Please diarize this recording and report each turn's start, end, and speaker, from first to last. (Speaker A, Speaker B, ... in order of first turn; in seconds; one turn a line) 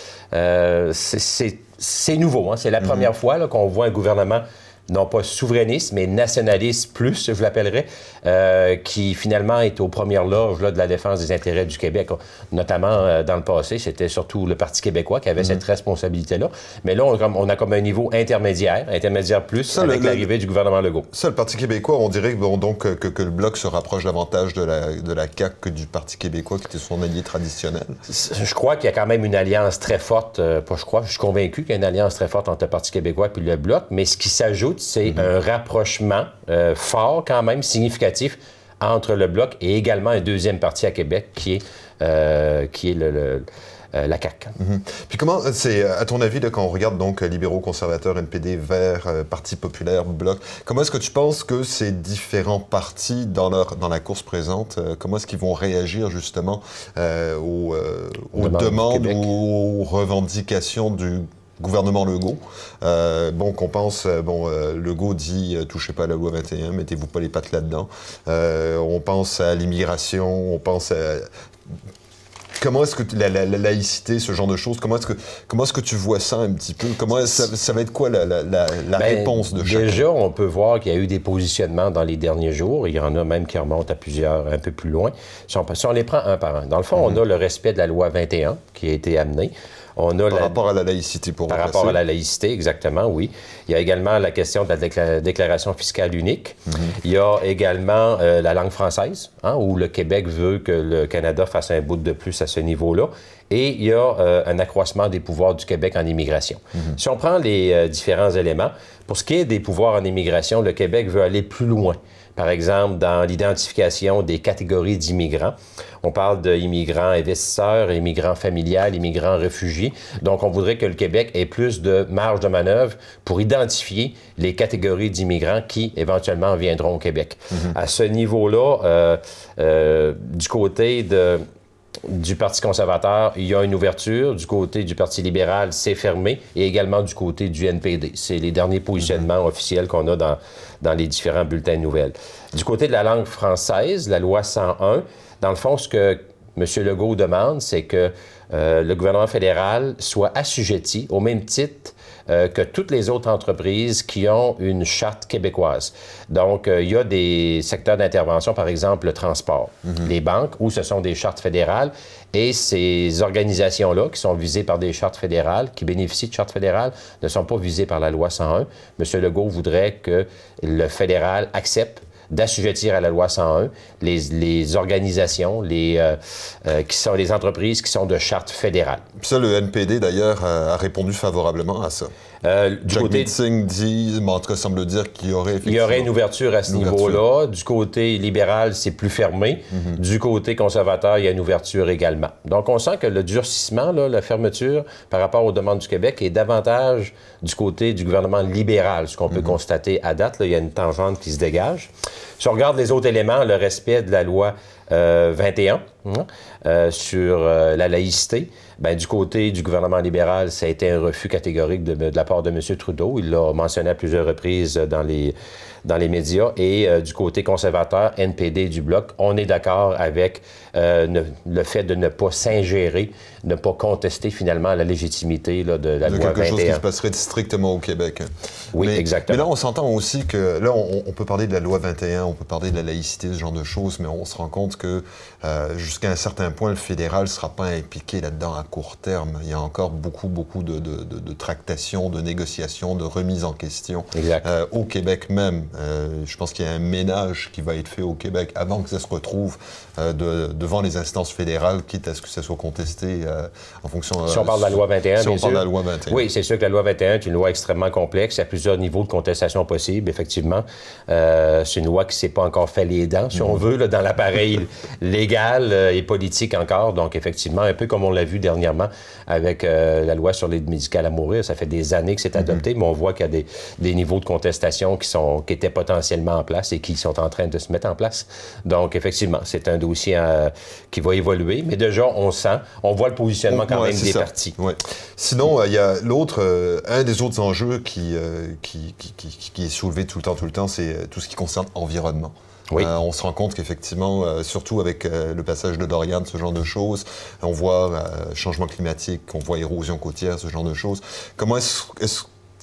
Speaker A: 0.3-21.1
Speaker B: 2.8-3.1
Speaker B: 19.7-20.3
Speaker B: 21.1-28.0
Speaker A: 28.1-44.5
Speaker B: 44.6-71.3
Speaker A: 58.4-59.3
Speaker B: 72.6-80.0
Speaker A: 79.0-90.6
Speaker B: 90.3-92.0
Speaker A: 91.5-131.4
Speaker B: 127.5-127.8
Speaker A: 132.1-179.0
Speaker B: 179.2-182.1
Speaker A: 182.4-183.3
Speaker B: 182.9-186.1
Speaker A: 185.7-226.8
Speaker B: 186.7-187.2
Speaker B: 189.7-190.0
Speaker B: 226.1-256.2
Speaker A: 228.7-229.5
Speaker A: 244.1-244.5
Speaker A: 254.3-284.6
Speaker B: 263.3-263.6
Speaker B: 283.5-302.2